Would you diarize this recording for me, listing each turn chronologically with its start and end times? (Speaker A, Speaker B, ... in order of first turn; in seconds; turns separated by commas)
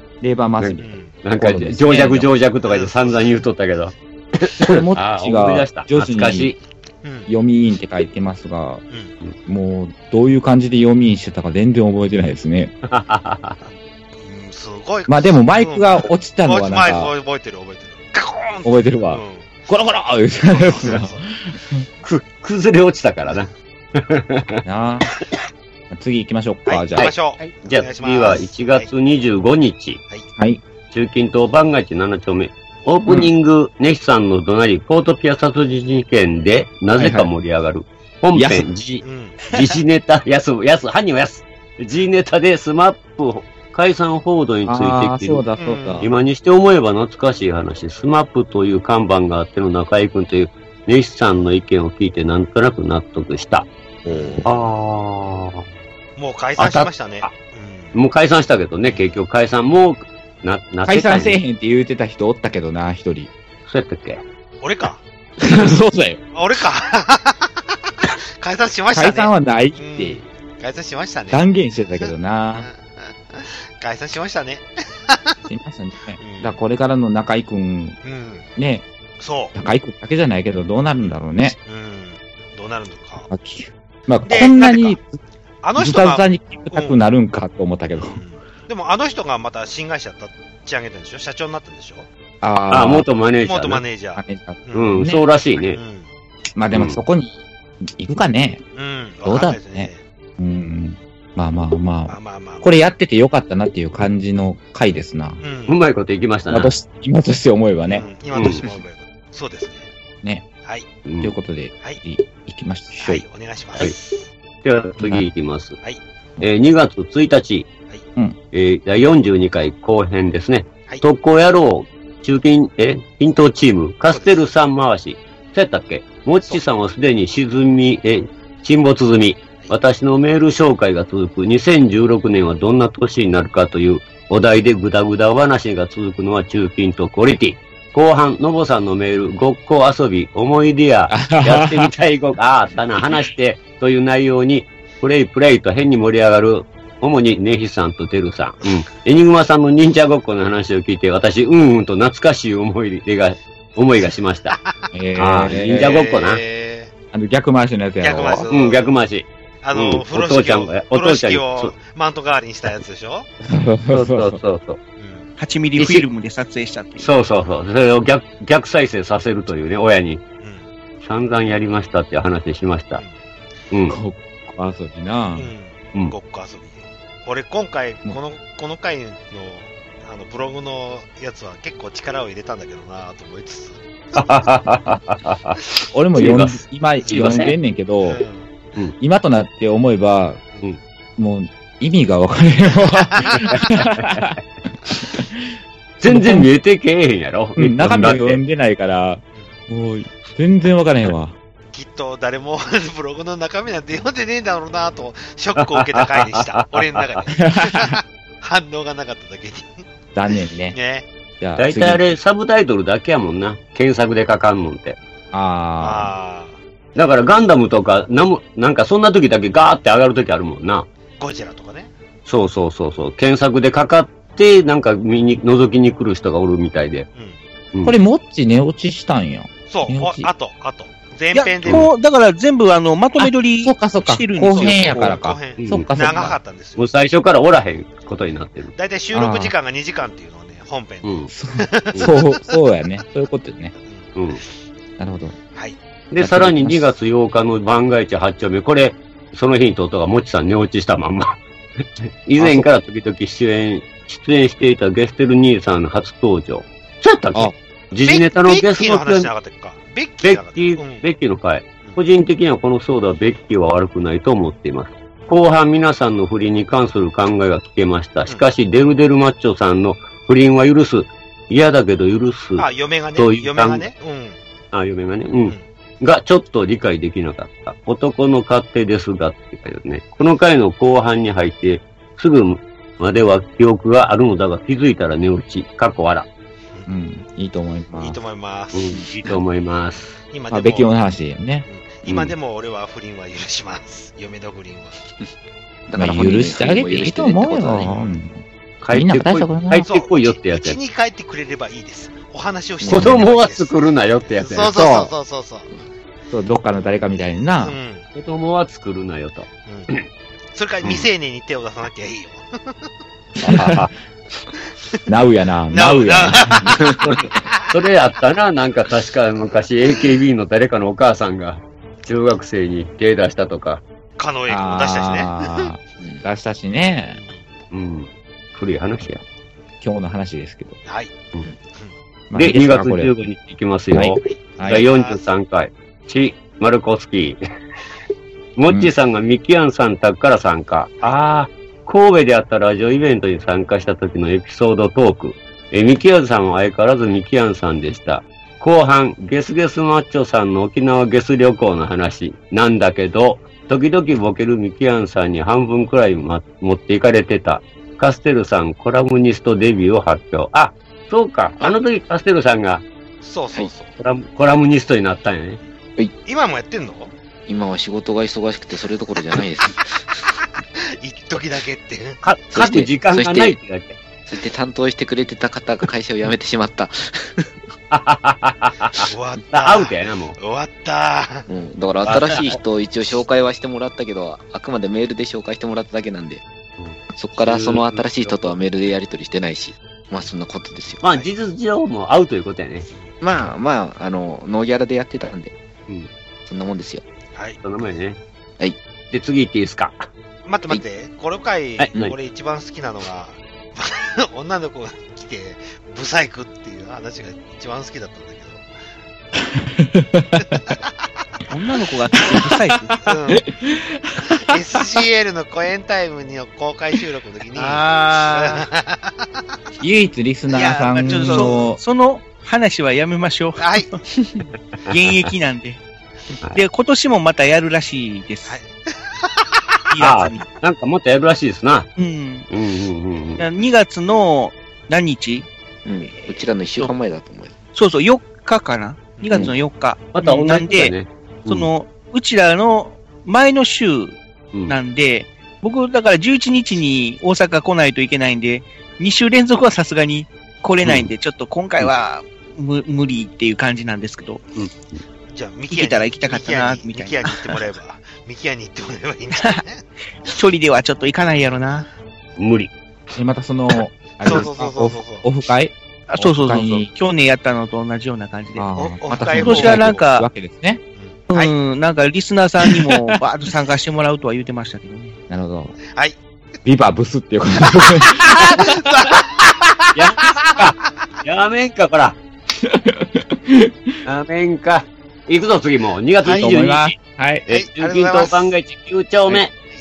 Speaker A: 0.2-2.3, Speaker B: 0.6-6.6, Speaker C: 0.8-1.1, Speaker C: 2.6-3.4, Speaker A: 4.6-6.5, Speaker C: 7.0-7.3, Speaker A: 7.3-8.8, Speaker A: 9.5-12.7, Speaker B: 12.9-13.6, Speaker C: 13.6-19.6, Speaker A: 15.1-17.1, Speaker A: 18.6-21.9, Speaker C: 20.5-21.2, Speaker B: 22.0-24.6, Speaker A: 24.6-25.1, Speaker A: 25.9-27.1, Speaker C: 26.7-28.9, Speaker B: 27.6-30.0, Speaker A: 30.4-30.6, Speaker B: 30.9-45.4, Speaker A: 37.0-37.3, Speaker A: 38.3-38.7, Speaker C: 39.0-39.4, Speaker A: 44.7-46.1, Speaker C: 45.6-46.1, Speaker B: 46.0-53.7, Speaker C: 54.0-54.5, Speaker A: 54.1-54.5, Speaker B: 54.4-55.7, Speaker C: 56.2-58.0, Speaker B: 56.6-57.3, Speaker B: 57.9-61.4, Speaker C: 58.9-59.1, Speaker A: 60.8-63.3, Speaker B: 63.7-64.2, Speaker C: 64.6-65.0, Speaker A: 65.4-66.2, Speaker C: 66.3-67.6, Speaker C: 68.4-71.4, Speaker A: 68.9-70.2, Speaker A: 71.3-72.7, Speaker C: 72.0-75.5, Speaker A: 75.5-78.0, Speaker C: 76.2-76.6, Speaker C: 78.0-78.5, Speaker A: 78.6-78.8, Speaker C: 79.2-79.5, Speaker A: 79.5-81.6, Speaker C: 81.0-83.3, Speaker A: 83.3-85.2, Speaker C: 84.3-85.0, Speaker C: 85.6-87.0, Speaker A: 85.8-88.2, Speaker C: 87.9-92.1, Speaker A: 92.4-93.1, Speaker B: 92.7-93.8, Speaker C: 93.4-95.1, Speaker A: 94.2-95.2, Speaker B: 94.7-95.8, Speaker C: 95.7-96.1, Speaker A: 96.6-98.6, Speaker B: 96.7-97.0, Speaker C: 98.8-100.0, Speaker A: 99.2-105.4, Speaker C: 102.1-102.7, Speaker C: 105.4-105.8, Speaker B: 105.7-106.7, Speaker A: 106.5-108.1, Speaker C: 107.9-109.9, Speaker B: 108.3-108.7, Speaker B: 111.1-111.3, Speaker A: 111.2-113.2, Speaker C: 113.0-114.3, Speaker B: 114.6-115.8, Speaker A: 115.0-115.3, Speaker B: 116.4-117.7, Speaker B: 118.5-154.6, Speaker C: 124.1-124.4, Speaker A: 141.1-141.9, Speaker C: 154.5-154.9, Speaker A: 154.9-156.0, Speaker B: 155.2-156.4, Speaker C: 155.7-156.9, Speaker A: 157.1-158.5, Speaker C: 158.0-158.9, Speaker B: 158.2-161.7, Speaker C: 159.6-163.3, Speaker A: 163.4-164.4, Speaker B: 163.9-164.8, Speaker C: 165.0-165.3, Speaker D: 165.4-167.1, Speaker B: 165.8-166.1, Speaker B: 167.0-170.2, Speaker B: 171.0-173.0, Speaker B: 173.7-174.0, Speaker A: 173.9-175.5, Speaker C: 175.4-184.5, Speaker B: 184.2-185.6, Speaker A: 185.9-188.2, Speaker B: 186.2-187.6, Speaker C: 187.0-187.5, Speaker C: 188.1-188.5, Speaker A: 189.0-190.4, Speaker A: 191.2-194.4, Speaker C: 192.8-193.6, Speaker A: 194.9-195.5, Speaker B: 196.0-198.4, Speaker A: 196.1-196.5, Speaker A: 197.6-201.3, Speaker C: 201.7-209.8, Speaker B: 205.6-207.2, Speaker A: 207.4-208.0, Speaker A: 210.2-210.8, Speaker C: 210.7-211.1, Speaker A: 211.4-212.0, Speaker B: 211.6-215.0, Speaker A: 215.3-216.1, Speaker C: 215.8-216.6, Speaker B: 216.9-220.9, Speaker C: 221.2-221.9, Speaker B: 222.3-227.1, Speaker A: 227.8-230.3, Speaker C: 229.7-231.9, Speaker D: 231.3-235.2, Speaker A: 233.2-236.4, Speaker C: 234.5-236.9, Speaker B: 235.6-235.9, Speaker B: 236.8-238.7, Speaker C: 238.8-242.5, Speaker A: 239.1-239.5, Speaker B: 241.0-241.3, Speaker A: 241.3-243.7, Speaker C: 243.8-244.6, Speaker B: 244.2-244.4, Speaker A: 245.0-245.4, Speaker B: 246.1-259.3, Speaker A: 246.2-246.9, Speaker A: 252.4-252.7, Speaker C: 258.0-261.1, Speaker B: 260.2-273.9, Speaker C: 272.6-274.4, Speaker B: 274.7-286.3, Speaker A: 286.9-288.2, Speaker C: 288.0-288.9, Speaker B: 288.7-290.2, Speaker E: 289.0-289.4, Speaker C: 290.3-290.9, Speaker A: 290.5-291.7, Speaker C: 291.7-295.0, Speaker B: 292.1-292.3, Speaker E: 295.9-297.9, Speaker A: 296.0-299.9, Speaker C: 297.8-298.2, Speaker B: 298.8-300.8, Speaker C: 299.9-303.7, Speaker E: 302.8-303.2, Speaker B: 302.9-304.7, Speaker C: 304.3-305.7, Speaker A: 304.7-305.1, Speaker A: 306.3-307.8, Speaker C: 307.6-308.1, Speaker B: 308.1-310.1, Speaker C: 309.7-309.9, Speaker C: 310.5-312.9, Speaker B: 310.8-311.1, Speaker A: 313.4-313.9, Speaker B: 313.5-313.9, Speaker A: 315.1-316.7, Speaker C: 315.7-316.8, Speaker E: 316.8-317.1, Speaker B: 317.0-323.8, Speaker C: 317.5-317.7, Speaker C: 324.2-325.7, Speaker A: 324.5-327.2, Speaker C: 327.1-327.4, Speaker B: 327.7-329.2, Speaker A: 329.8-330.8, Speaker C: 330.9-331.1, Speaker A: 332.3-333.1, Speaker B: 332.4-337.4, Speaker A: 333.9-334.9, Speaker C: 334.2-335.2, Speaker B: 338.6-362.8, Speaker C: 363.2-363.9, Speaker B: 364.0-365.6, Speaker C: 366.3-367.1, Speaker E: 367.5-370.1, Speaker C: 371.0-372.2, Speaker B: 372.2-374.0, Speaker E: 372.5-373.6, Speaker E: 374.3-377.5, Speaker B: 377.9-380.4, Speaker C: 379.1-381.5, Speaker E: 381.5-386.4, Speaker B: 382.1-382.6, Speaker B: 386.8-388.6, Speaker E: 387.1-391.0, Speaker B: 391.0-392.9, Speaker C: 391.0-391.3, Speaker E: 393.2-395.6, Speaker E: 396.5-397.0, Speaker C: 397.4-397.6, Speaker B: 397.6-398.2, Speaker B: 399.1-400.1, Speaker C: 400.4-408.7, Speaker B: 401.8-402.1, Speaker A: 409.4-410.8, Speaker C: 410.5-411.1, Speaker D: 411.5-413.0, Speaker A: 412.1-414.6, Speaker C: 413.1-413.4, Speaker C: 414.4-419.2, Speaker D: 417.6-418.7, Speaker A: 419.8-421.8, Speaker D: 420.5-423.8, Speaker C: 421.0-421.6, Speaker C: 423.6-423.9, Speaker B: 424.9-425.3, Speaker D: 424.9-425.8, Speaker D: 426.5-428.6, Speaker C: 428.5-429.6, Speaker D: 429.9-430.5, Speaker B: 430.0-431.9, Speaker D: 432.0-432.5, Speaker B: 432.5-433.4, Speaker D: 433.4-435.5, Speaker E: 435.9-437.5, Speaker D: 436.2-436.9, Speaker D: 437.7-440.9, Speaker B: 440.1-441.7, Speaker D: 441.5-444.2, Speaker D: 444.7-454.4, Speaker B: 450.8-451.1, Speaker B: 454.6-455.0, Speaker C: 455.3-459.9, Speaker D: 455.7-457.7, Speaker D: 459.3-459.6, Speaker D: 460.2-461.9, Speaker B: 462.4-462.7, Speaker A: 463.1-466.9, Speaker C: 464.2-465.2, Speaker D: 466.1-468.7, Speaker A: 468.6-470.8, Speaker C: 468.8-470.1, Speaker D: 469.3-470.3, Speaker C: 471.0-471.5, Speaker D: 471.3-475.2, Speaker A: 475.3-475.8, Speaker A: 476.6-478.8, Speaker C: 478.0-479.5, Speaker B: 479.9-482.2, Speaker A: 482.6-483.9, Speaker B: 484.1-487.0, Speaker C: 486.2-486.6, Speaker A: 486.3-487.4, Speaker B: 487.5-489.5, Speaker C: 487.5-488.5